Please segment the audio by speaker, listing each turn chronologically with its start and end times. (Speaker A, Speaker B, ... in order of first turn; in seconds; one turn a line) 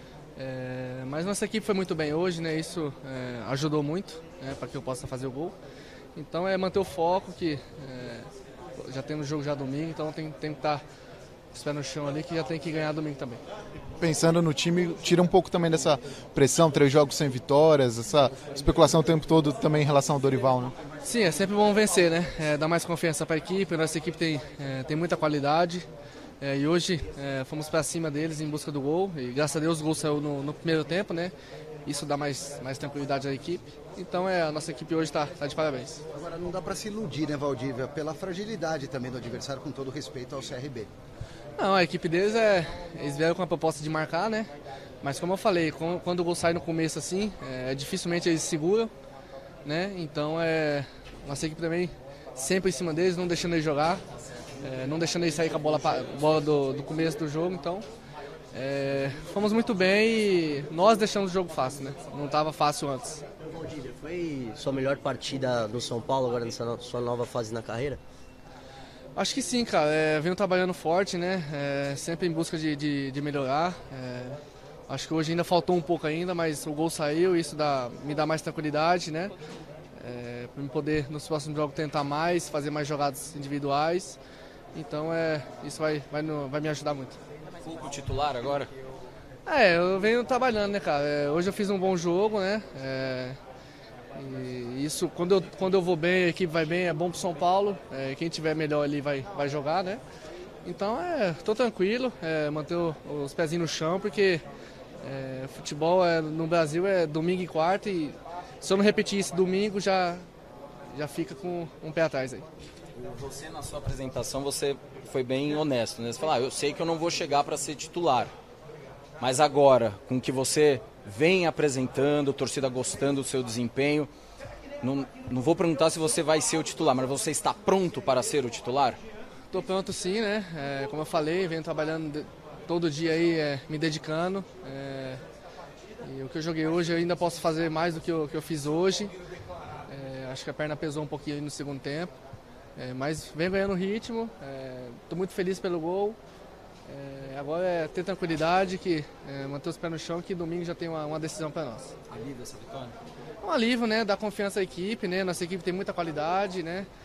Speaker A: 0.3-5.5
Speaker A: 6.1-10.8
Speaker A: 11.5-13.4
Speaker B: 14.0-20.7
Speaker A: 21.0-25.9
Speaker A: 26.4-31.3
Speaker A: 31.9-36.0
Speaker C: 36.1-40.9
Speaker A: 41.6-44.5
Speaker A: 45.0-48.9
Speaker A: 49.6-54.0
Speaker A: 54.6-57.9
Speaker A: 58.5-63.2
Speaker D: 63.5-68.0
Speaker A: 69.2-79.3
Speaker A: 80.0-84.2
Speaker A: 84.7-87.2
Speaker E: 87.6-88.7
Speaker A: 89.5-93.4
Speaker A: 94.1-100.0
Speaker A: 100.6-104.4
Speaker A: 105.0-110.2
Speaker A: 110.9-112.5
Speaker E: 112.9-118.3
Speaker E: 119.2-124.1
Speaker E: 124.8-129.0
Speaker A: 129.5-135.2
Speaker A: 136.0-139.1
Speaker A: 139.9-142.1
Speaker A: 142.8-146.2
Speaker A: 146.9-151.9
Speaker E: 152.1-152.9
Speaker A: 153.4-156.9